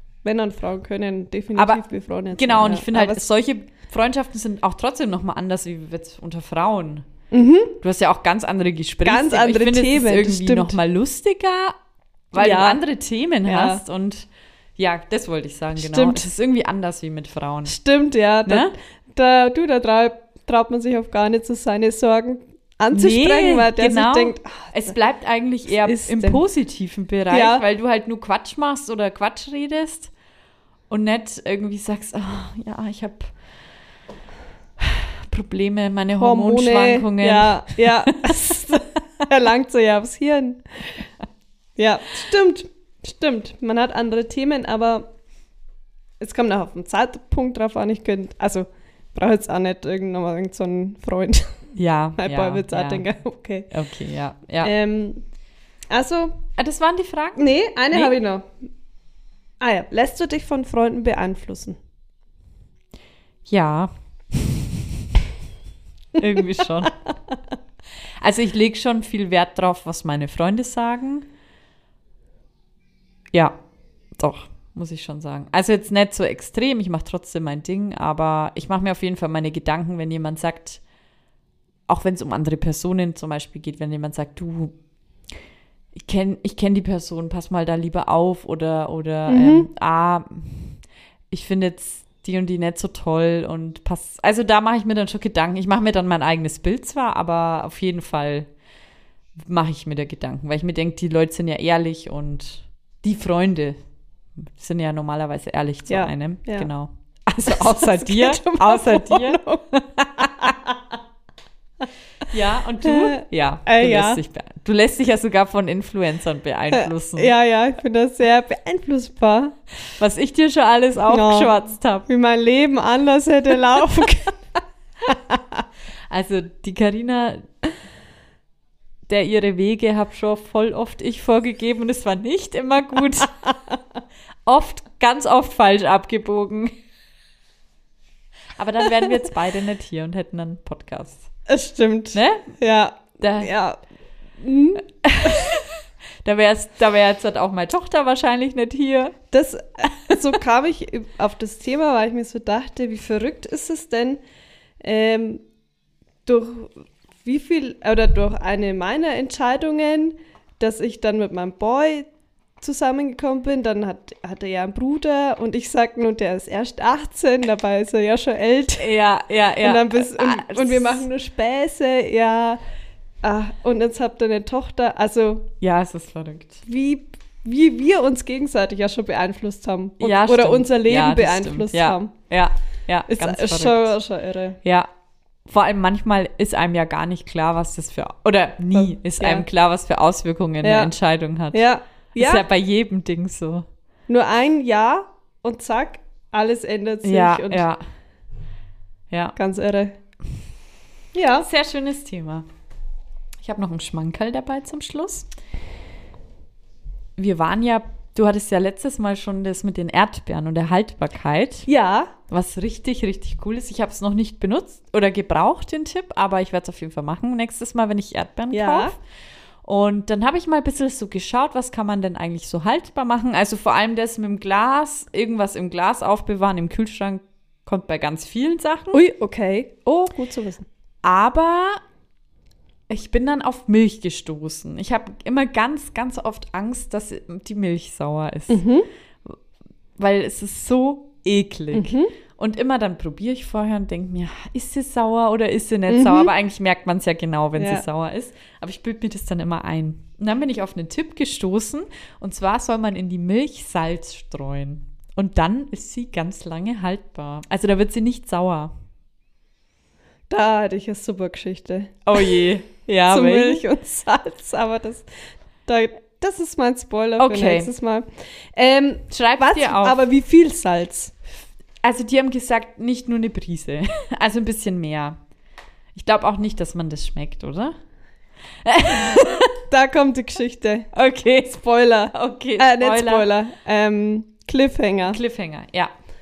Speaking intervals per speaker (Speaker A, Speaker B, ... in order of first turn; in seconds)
Speaker A: 0.2-3.2, 7.3-7.8, 9.0-10.8, 12.4-12.8, 13.4-13.8, 15.8-16.3, 17.7-24.9, 25.7-26.4, 27.3-27.6, 36.1-41.0, 41.8-45.1, 46.2-51.5, 52.2-53.7, 54.6-55.2, 55.9-56.5, 57.4-58.6, 59.6-61.8, 89.3-89.7, 105.9-106.7, 107.5-110.8, 112.8-114.2, 116.7-119.6, 121.1-121.5, 122.1-124.4, 125.1-125.6, 141.5-143.8, 144.4-145.5, 149.3-154.2, 154.8-155.4, 156.3-162.1, 162.6-169.0, 169.6-172.6, 173.2-175.5, 176.7-182.1, 183.1-184.6, 188.7-189.5, 190.6-190.9, 191.5-192.5, 194.1-197.7, 199.4-199.9, 201.1-201.5, 211.7-212.1, 218.5-218.9, 228.9-230.7, 238.5-238.9, 241.7-242.1, 245.9-246.3, 247.6-247.8, 260.3-262.5, 263.1-265.1, 265.7-271.1, 279.7-280.9, 281.4-285.2
Speaker B: 1.6-7.1, 7.8-11.8, 12.3-17.8, 18.5-18.7, 22.9-30.1, 30.9-33.3, 34.8-38.8, 51.8-53.1, 53.7-54.7, 56.6-58.1, 63.5-65.1, 66.2-67.0, 68.2-71.3, 74.2-80.8, 81.9-84.8, 85.9-90.8, 91.3-98.5, 99.4-103.8, 104.4-110.5, 112.3-117.3, 119.9-122.1, 126.1-127.5, 129.1-133.4, 134.5-136.7, 138.6-141.3, 142.1-142.5, 143.2-143.5, 145.0-149.2, 168.8-171.0, 175.6-176.6, 180.0-183.9, 184.6-184.9, 185.5-193.7, 197.0-197.8, 199.1-199.4, 201.4-202.5, 203.4-205.3, 207.2-211.7, 212.3-219.0, 219.6-229.0, 231.0-231.8, 232.9-238.6, 240.0-258.7, 262.1-263.6, 267.2-267.7, 269.1-270.0, 271.8-275.2, 275.9-277.8, 278.6-279.6, 280.9-281.6, 282.1-283.3, 285.1-285.9